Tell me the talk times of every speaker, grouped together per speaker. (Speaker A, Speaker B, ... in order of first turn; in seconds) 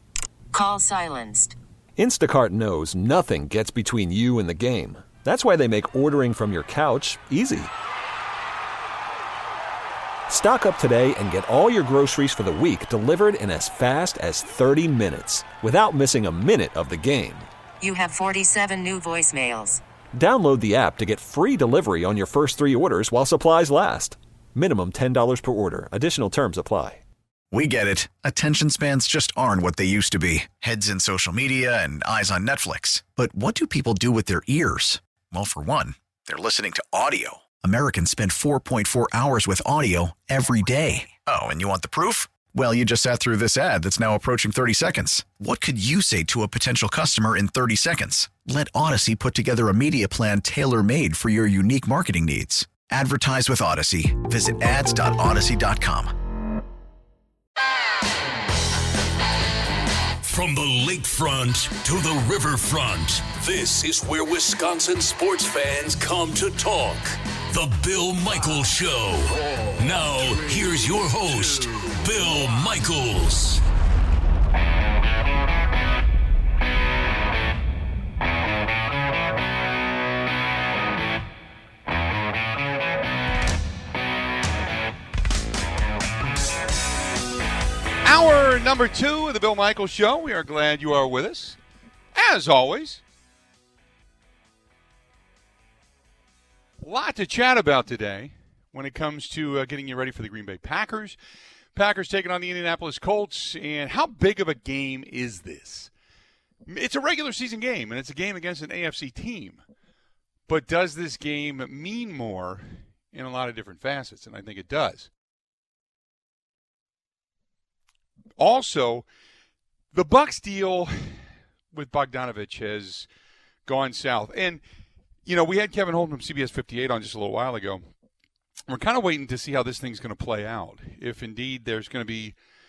Speaker A: 0.5-1.6, 17.8-19.8
Speaker B: 2.0-7.7, 10.3-17.5, 20.1-27.0
Speaker C: 27.5-56.1
Speaker D: 60.2-73.6
Speaker E: 88.0-91.6, 92.1-93.0, 96.8-101.2, 101.7-105.9, 106.7-109.6, 110.5-115.1, 118.4-119.1, 119.9-123.1, 123.7-124.6, 125.2-127.8, 128.7-132.3